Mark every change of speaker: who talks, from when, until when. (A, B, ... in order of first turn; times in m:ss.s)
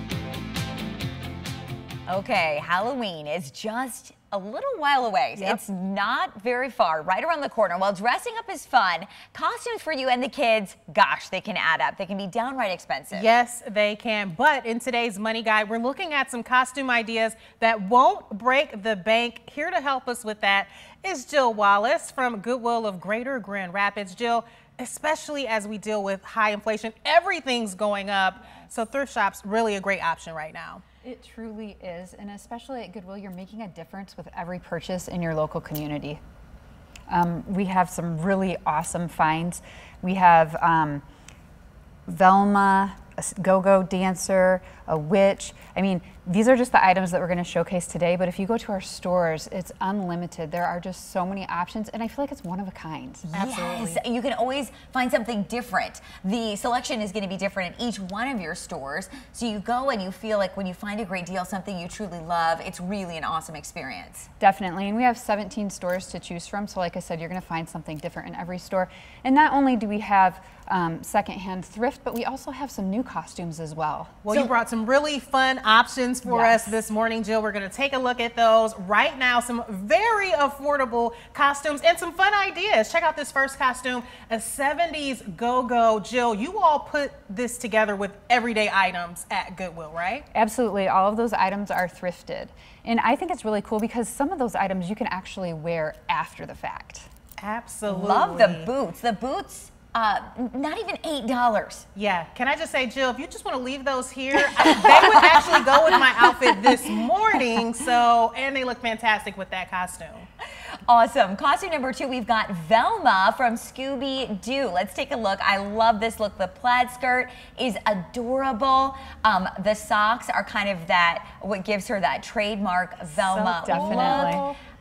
0:02.1-0:13.3 A
0:05.4-0:05.6 B
0:13.1-0:30.8 B
0:31.0-0:36.2 C
0:37.1-0:41.0 C
0:42.1-0:53.3 C
0:53.3-1:04.3 A
0:53.3-0:54.0 B
1:04.4-1:14.2 C
1:14.2-1:30.3 B
1:16.2-1:16.8 C
1:30.3-1:37.1 C
1:37.4-1:38.7 B
1:37.9-1:41.9 A
1:42.0-1:50.3 B
1:44.6-1:46.0 A
1:50.9-2:04.4 A
2:03.2-2:04.6 B
2:03.6-2:04.4 C